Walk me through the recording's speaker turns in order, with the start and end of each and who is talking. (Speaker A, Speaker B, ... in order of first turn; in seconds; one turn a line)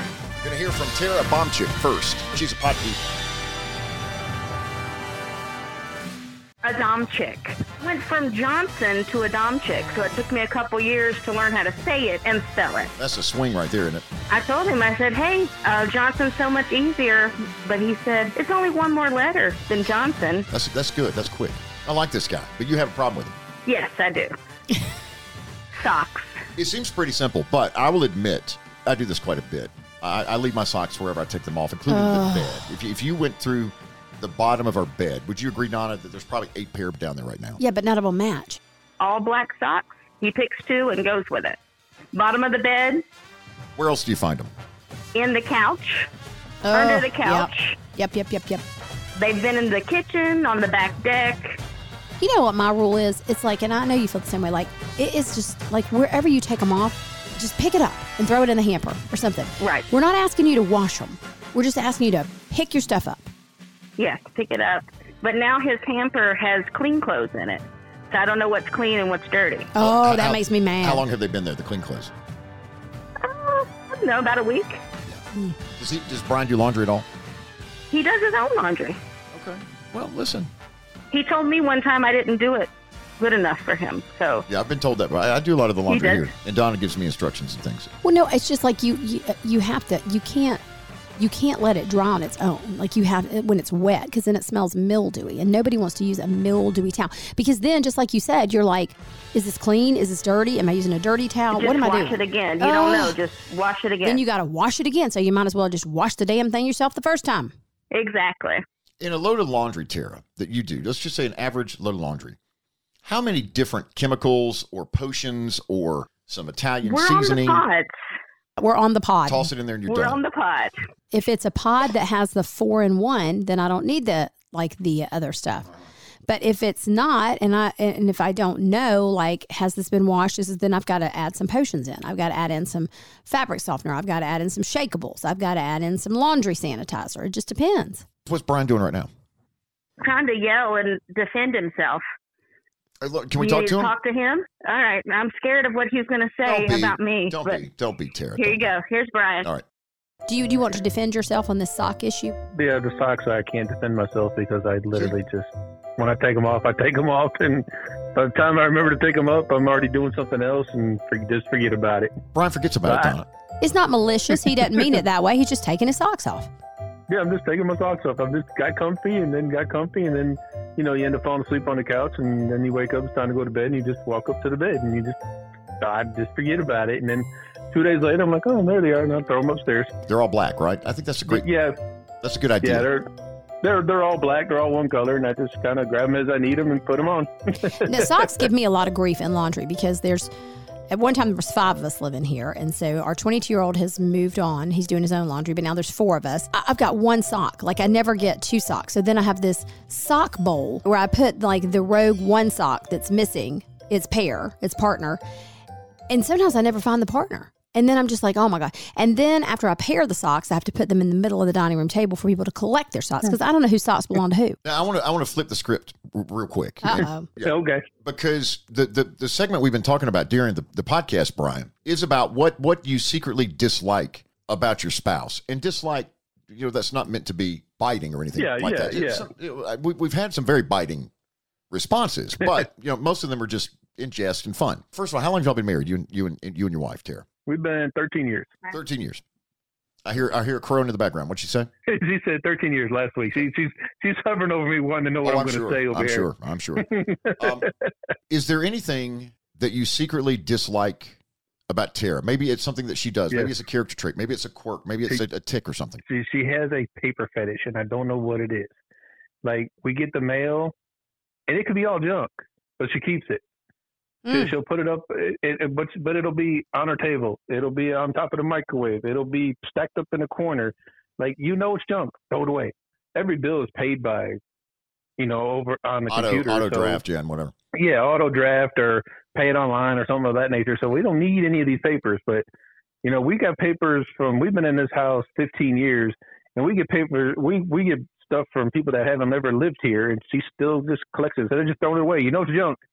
Speaker A: 0.4-3.1
Speaker B: 6.6-12.9
Speaker A: 13.0-14.1
Speaker B: 14.3-20.5
Speaker A: 20.5-23.4
Speaker B: 23.7-24.3
Speaker B: 25.7-26.4
Speaker A: 26.6-37.6
Speaker C: 31.9-32.7
Speaker C: 37.6-38.6
Speaker B: 39.0-41.6
Speaker B: 42.1-43.0
Speaker A: 43.8-44.5
Speaker B: 45.1-46.1
Speaker C: 46.6-48.6
Speaker B: 46.7-47.8
Speaker B: 49.2-51.6
Speaker C: 52.2-63.3
Speaker B: 59.6-59.9
Speaker B: 64.0-69.7
Speaker C: 69.8-71.0
Speaker A: 69.8-72.1
Speaker B: 73.2-74.8
Speaker A: 75.8-77.1
Speaker B: 77.9-79.0
Speaker A: 79.3-80.5
Speaker B: 81.1-84.5
Speaker A: 84.5-87.9
Speaker B: 85.9-86.3
Speaker C: 88.0-90.6
Speaker C: 91.2-103.2
Speaker B: 101.5-104.2
Speaker C: 104.0-107.5
Speaker B: 107.9-108.6
Speaker A: 109.0-112.4
Speaker A: 113.0-117.7
Speaker B: 116.8-117.9
Speaker C: 118.6-119.5
Speaker A: 119.3-120.2
Speaker B: 119.9-120.7
Speaker C: 121.1-125.7
Speaker C: 126.3-138.1
Speaker A: 138.2-139.1
Speaker B: 140.0-142.0
Speaker A: 143.0-143.9
Speaker B: 143.4-147.6
Speaker A: 146.4-148.7
Speaker B: 148.4-149.5
Speaker C: 150.3-152.4
Speaker D: 152.5-162.1
Speaker A: 162.3-163.3
Speaker D: 162.8-163.2
Speaker C: 163.6-166.5
Speaker D: 164.4-164.9
Speaker D: 167.1-175.2
Speaker D: 175.8-179.9
Speaker A: 180.1-181.5
Speaker D: 181.3-181.8
Speaker A: 182.2-182.9
Speaker D: 182.6-183.1
Speaker D: 183.6-188.5
Speaker C: 187.8-190.3
Speaker C: 190.9-205.2
Speaker C: 206.1-214.6
Speaker A: 214.6-231.1
Speaker C: 216.8-217.3
Speaker D: 216.9-217.8
Speaker D: 228.4-229.3
Speaker A: 231.7-237.3
Speaker D: 237.5-238.6
Speaker A: 238.7-239.2
Speaker A: 240.1-241.7
Speaker D: 241.9-247.6
Speaker A: 245.2-246.9
Speaker A: 247.4-247.7
Speaker A: 248.3-256.0
Speaker D: 253.3-253.6
Speaker D: 256.1-258.8
Speaker D: 259.4-260.7
Speaker D: 261.5-263.4
Speaker C: 264.2-264.6
Speaker D: 264.3-274.4
Speaker D: 275.2-277.0
Speaker A: 276.1-277.5
Speaker D: 277.7-282.4
Speaker D: 283.0-292.8